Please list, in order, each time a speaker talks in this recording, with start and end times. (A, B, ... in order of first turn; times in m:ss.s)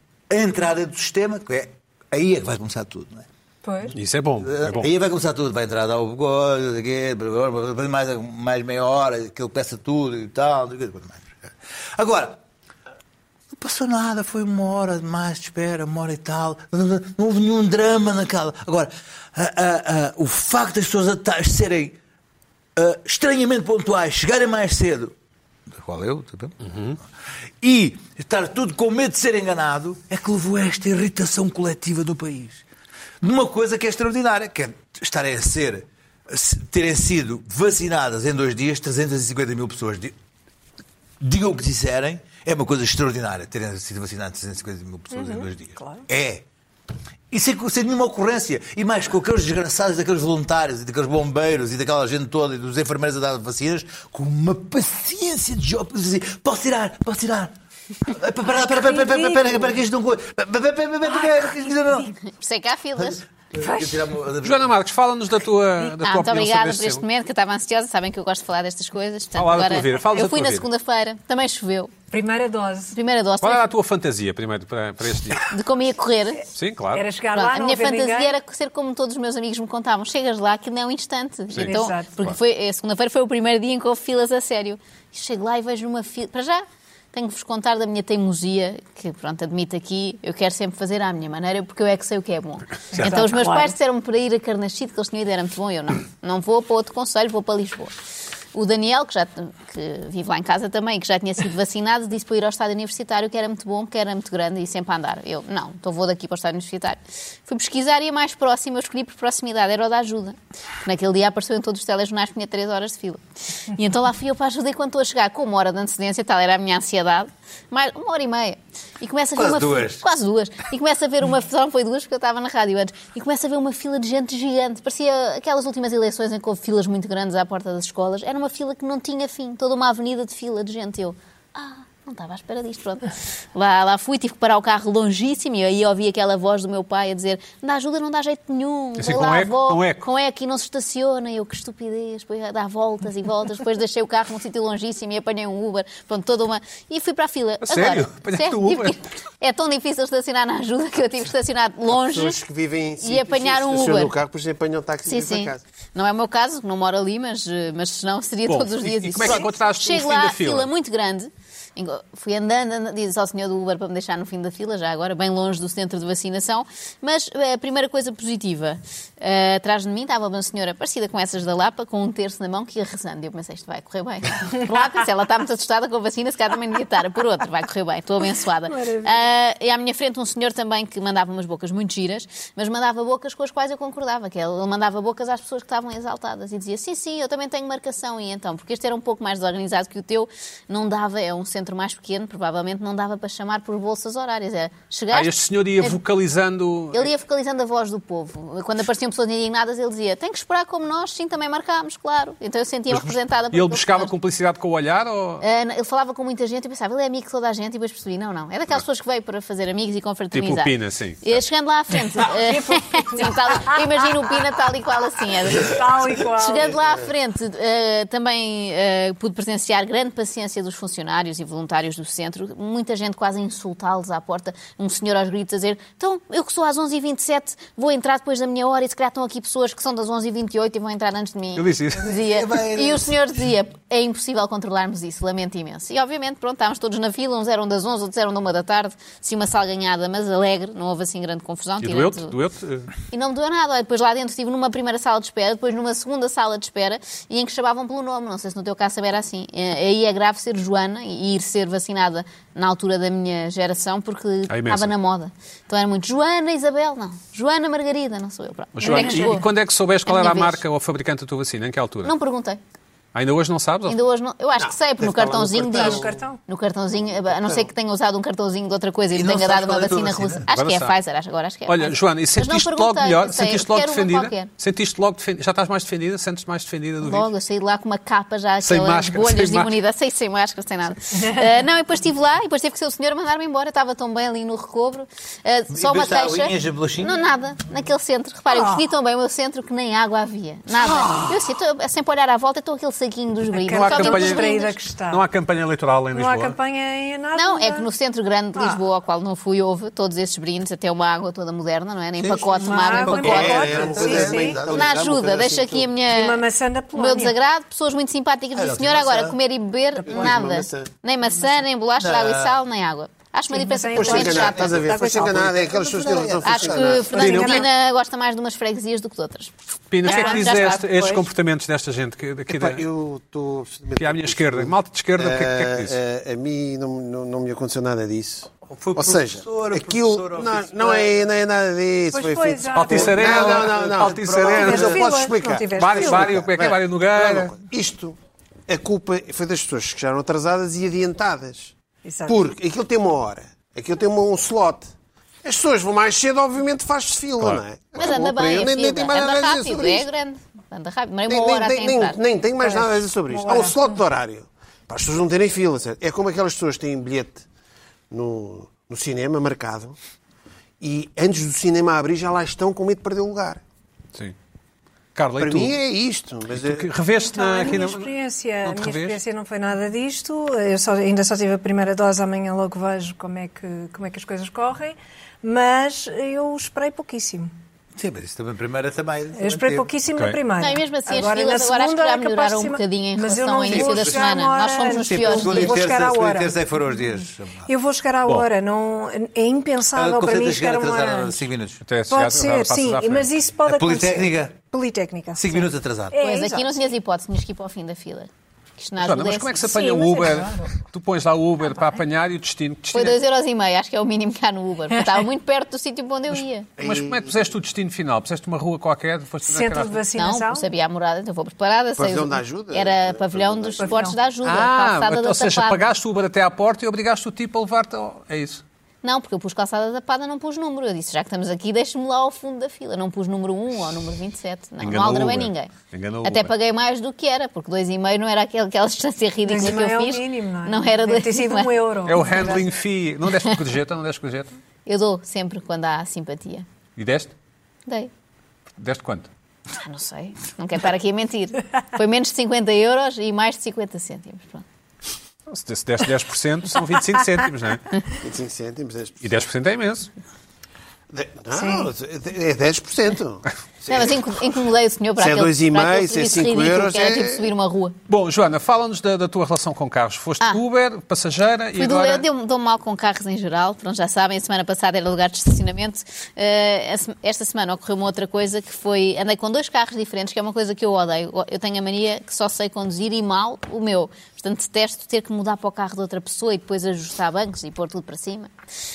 0:00.3-0:03.3 A
0:03.6-0:04.0 B
0:04.0-0:04.9 C
0:04.4-0:12.4 A
0:13.6-0:22.0 A
0:22.8-0:25.2 A
0:25.7-0:26.6 A
0:26.7-0:27.0 C
0:27.6-0:32.6 A
0:33.2-0:40.2 A
0:41.2-0:46.5 A
0:45.1-0:46.0 B
0:47.3-1:02.1 A
0:58.7-0:59.7 B
1:02.3-1:03.2 D
1:03.0-1:04.7 A
1:04.4-1:07.0 C
1:06.0-1:12.0 D
1:09.4-1:10.7 C
1:12.1-1:12.9 B
1:12.9-1:13.7 D
1:13.4-1:15.5 C
1:15.5-1:16.4 D
1:16.6-1:17.1 C
1:16.9-1:18.4 B
1:17.3-1:37.9 D
1:21.5-1:22.4 C
1:21.6-1:22.1 B
1:32.9-1:33.7 B
1:38.5-2:32.4 D
1:59.4-2:00.0 A
2:19.0-2:20.0 C
2:27.6-2:29.0 C
2:31.9-2:35.6 E
2:33.0-2:34.1 D
2:35.1-3:16.0 D
2:38.5-2:40.7 C
2:58.8-2:59.1 B
3:15.1-3:17.1 C
3:16.9-3:24.1 D
3:22.9-3:25.4 C
3:25.4-4:02.3 D
3:30.3-3:31.4 C
3:32.1-3:34.0 B
3:35.5-3:36.8 B
3:51.6-3:52.1 C
3:52.0-3:53.2 A
4:01.8-4:02.9 C
4:03.1-4:19.5 D
4:14.5-4:14.9 C
4:18.8-4:22.1 C
4:18.8-4:19.4 B
4:20.1-4:20.6 D
4:22.0-4:22.6 D
4:23.1-4:24.0 C
4:23.9-4:34.5 D
4:24.6-4:26.2 E
4:25.7-4:26.4 B
4:27.3-4:27.7 E
4:29.1-4:30.5 A
4:30.5-4:31.0 C
4:31.7-4:37.3 C
4:37.0-4:54.8 D
4:38.6-4:39.7 C
4:41.2-4:41.5 B
4:45.7-4:47.2 A
4:48.5-4:48.8 B
4:53.5-4:55.2 B
4:53.7-4:54.5 C
4:55.1-4:56.6 C
4:56.1-4:57.9 B
4:57.4-5:03.7 D
4:58.6-4:58.8 B
5:02.2-5:05.1 A
5:02.6-5:04.6 B
5:03.1-5:05.9 E
5:04.7-5:14.8 D
5:06.1-5:07.4 B
5:08.5-5:09.4 A
5:10.1-5:10.9 E
5:12.0-5:12.6 A
5:13.5-5:15.7 B
5:13.9-5:17.6 E
5:15.1-5:16.9 A
5:16.4-5:19.5 D
5:16.9-5:17.7 B
5:19.9-5:22.8 C
5:20.0-5:21.3 D
5:20.0-5:20.6 B
5:22.5-5:38.2 E
5:24.0-5:26.0 C
5:28.7-5:31.1 A
5:32.1-5:33.5 B
5:32.7-5:35.0 C
5:33.2-5:35.0 A
5:34.6-5:36.5 B
5:35.8-5:37.5 C
5:38.7-5:41.7 E
5:42.0-5:42.4 B
5:42.3-5:44.9 E
5:45.4-5:50.1 E
5:48.0-5:52.2 D
5:51.3-5:57.4 E
5:52.6-5:54.0 B
5:58.1-6:00.0 E
6:00.8-6:03.6 E
6:05.2-6:05.8 C
6:05.4-6:06.9 E
6:06.5-6:08.1 C
6:07.2-6:17.5 B
6:08.6-6:09.2 C
6:18.0-6:19.9 A
6:19.4-6:26.6 B
6:20.6-6:25.8 D
6:23.7-6:24.3 A
6:25.0-6:27.7 A
6:27.7-6:31.4 B
6:30.0-6:31.8 A
6:31.8-6:33.3 C
6:32.1-6:36.8 B
6:33.7-6:34.6 A
6:35.4-6:36.2 A
6:36.2-6:40.2 D
6:39.0-6:43.2 C
6:39.8-6:40.7 B
6:42.9-6:46.7 D
6:45.0-6:45.2 B
6:46.8-6:47.5 E
6:46.8-6:50.0 C
6:49.4-6:50.7 B
6:50.2-6:55.9 D
6:52.0-6:54.1 E
6:53.8-6:54.2 B
6:54.4-6:58.6 C
6:59.0-7:05.7 D
7:04.8-7:06.5 C
7:06.2-7:11.7 D
7:09.4-7:12.7 B
7:12.1-7:14.6 C
7:14.9-7:16.6 D
7:17.0-7:17.3 C
7:18.8-7:19.3 C
7:19.8-7:24.6 D
7:25.5-7:27.9 C
7:28.2-7:29.3 E
7:29.2-7:30.1 C
7:31.1-7:34.4 E
7:31.5-7:31.9 B
7:33.9-7:38.0 D
7:35.2-7:37.5 E
7:38.1-7:42.3 C
7:41.8-7:58.5 D